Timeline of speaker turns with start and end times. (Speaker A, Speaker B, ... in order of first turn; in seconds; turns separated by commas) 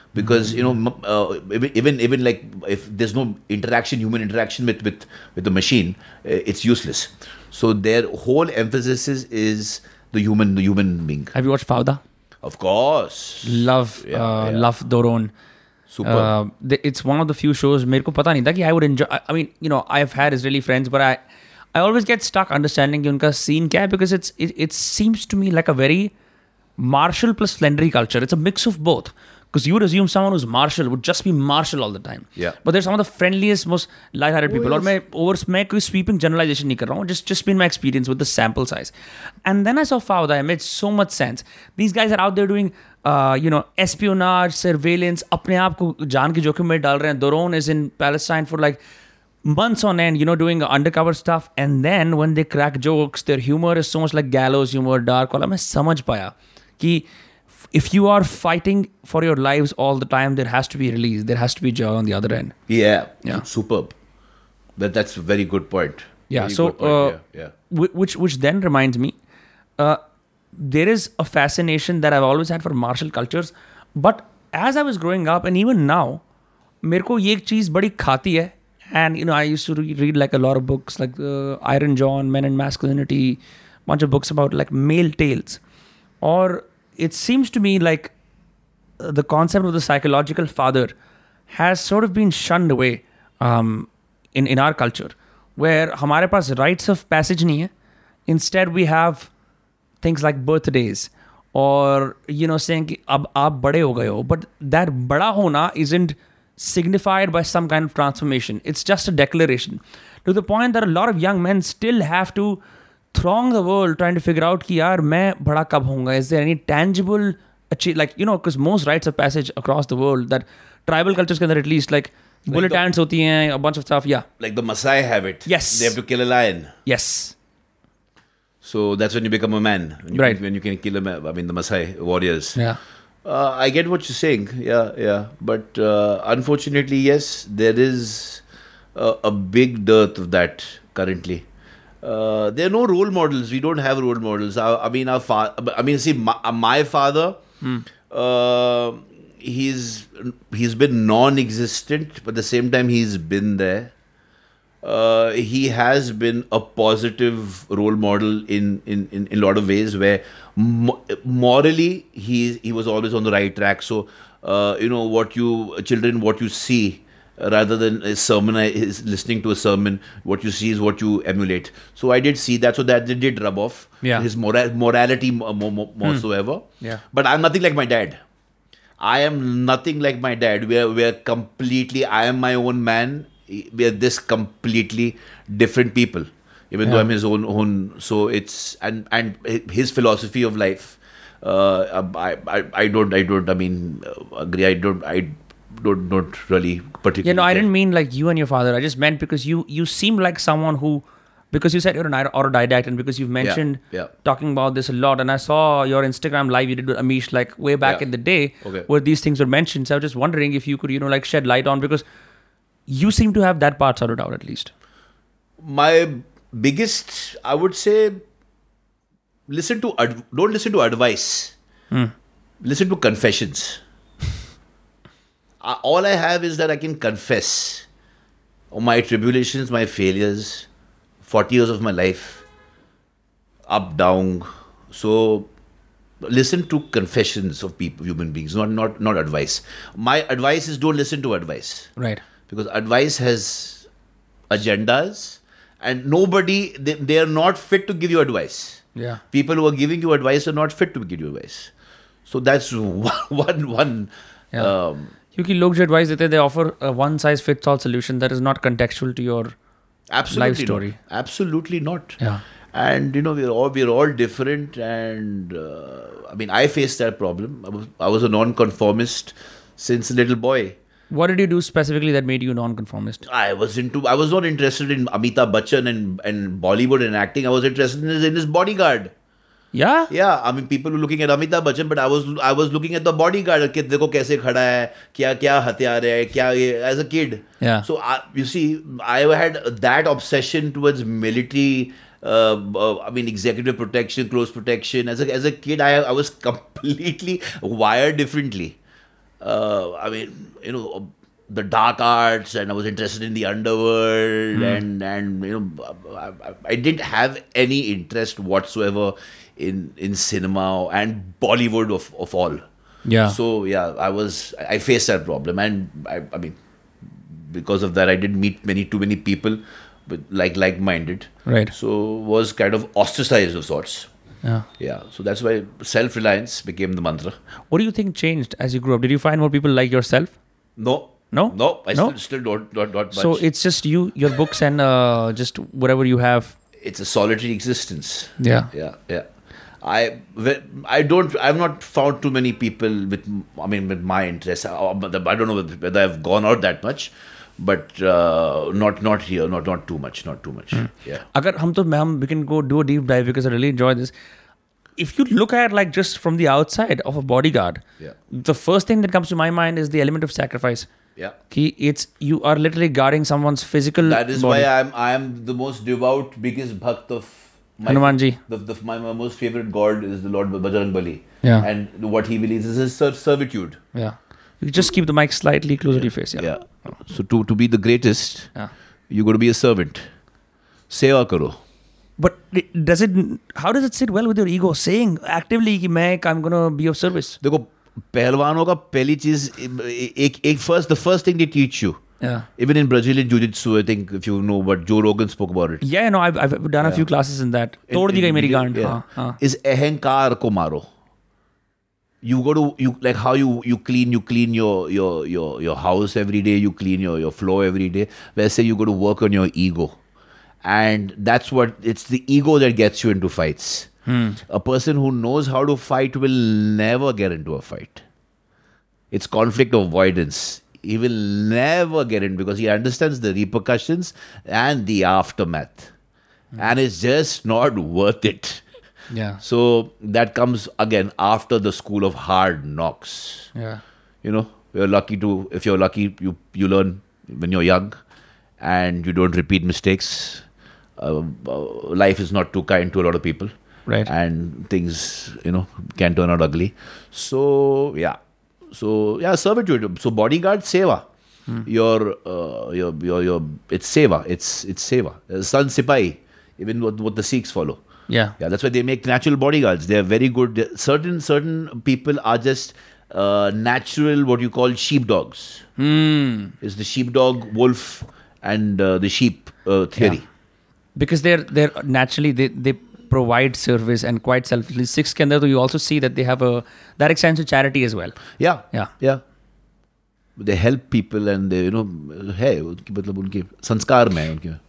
Speaker A: 0.1-11.3, Speaker B: 0.2-0.7, Speaker B: 11.3-12.0, Speaker A: 12.4-14.7, Speaker B: 13.4-15.3, Speaker A: 15.9-16.3, Speaker B: 16.0-21.2, Speaker B: 21.7-26.1, Speaker B: 26.8-38.9, Speaker A: 34.5-34.9, Speaker B: 39.4-48.8, Speaker B: 49.4-57.0, Speaker B: 57.7-62.5, Speaker A: 62.7-63.9, Speaker A: 64.8-67.5, Speaker B: 66.3-67.2, Speaker B: 67.7-69.2, Speaker B: 70.5-76.2, Speaker B: 76.8-85.6, Speaker B: 86.2-88.1, Speaker B: 89.0-90.9, Speaker B: 91.5-97.7, Speaker B: 98.3-99.3, Speaker B: 100.0-112.6, Speaker B: 113.1-124.2, Speaker A: 122.5-122.8, Speaker A: 124.4-126.7, Speaker B: 125.5-126.0, Speaker B: 126.8-127.3, Speaker A: 128.6-132.6, Speaker B: 130.1-130.4, Speaker A: 133.2-138.4, Speaker A: 138.9-141.4, Speaker A: 142.0-147.4, Speaker B: 147.6-147.9, Speaker A: 148.1-153.9, Speaker A: 154.8-178.2, Speaker B: 174.0-174.3, Speaker A: 179.0-197.7, Speaker B: 197.2-212.0, Speaker A: 203.4-204.1, Speaker A: 208.6-208.9, Speaker B: 212.9-214.7, Speaker A: 215.6-218.2, Speaker A: 219.5-221.5, Speaker A: 222.6-223.8, Speaker A: 225.6-227.8, Speaker A: 228.7-230.7, Speaker A: 231.2-232.4, Speaker A: 233.7-235.5, Speaker A: 236.2-241.9, Speaker B: 242.0-242.2, Speaker A: 242.5-243.9, Speaker A: 244.5-251.7, Speaker B: 248.9-249.2, Speaker A: 252.3-255.1, Speaker B: 255.3-259.5, Speaker A: 260.1-262.2, Speaker B: 260.3-261.0, Speaker A: 262.7-270.8, Speaker B: 271.1-273.2, Speaker A: 273.2-279.1, Speaker B: 279.7-280.1, Speaker A: 280.1-298.8, Speaker B: 287.6-287.9, Speaker A: 299.4-312.6, Speaker B: 304.5-304.8, Speaker B: 313.1-313.4, Speaker A: 313.2-316.6, Speaker A: 317.2-324.1, Speaker B: 321.4-321.7, Speaker A: 324.8-327.3, Speaker B: 327.7-330.3, Speaker A: 330.8-333.4, Speaker B: 331.3-332.1, Speaker B: 333.1-336.5, Speaker A: 336.8-339.3, Speaker B: 338.4-338.7, Speaker A: 339.8-351.2, Speaker B: 350.7-354.1, Speaker B: 355.0-360.9, Speaker B: 361.5-364.7, Speaker A: 364.0-373.8, Speaker B: 367.9-368.4, Speaker B: 371.4-371.7, Speaker B: 373.9-376.5, Speaker A: 375.9-378.5, Speaker A: 379.1-380.0, Speaker A: 380.9-381.6, Speaker B: 382.2-387.4, Speaker A: 387.4-392.0, Speaker B: 392.2-392.5, Speaker A: 392.6-395.8, Speaker B: 395.8-399.4, Speaker A: 396.8-397.1, Speaker A: 397.9-400.9, Speaker A: 402.2-410.0, Speaker A: 410.6-413.9, Speaker B: 414.1-414.4, Speaker A: 414.4-418.0, Speaker A: 419.1-425.9, Speaker A: 426.6-428.6, Speaker B: 429.1-429.4, Speaker A: 429.4-433.5, Speaker B: 433.5-433.8, Speaker A: 434.2-437.9, Speaker A: 438.6-440.4, Speaker A: 441.0-443.5, Speaker A: 444.1-448.2, Speaker A: 448.7-451.0, Speaker A: 451.6-457.8, Speaker B: 458.1-458.3, Speaker A: 458.4-465.6, Speaker B: 465.8-466.5, Speaker A: 466.6-470.2, Speaker B: 470.9-478.2, Speaker A: 478.4-479.2, Speaker A: 480.4-484.6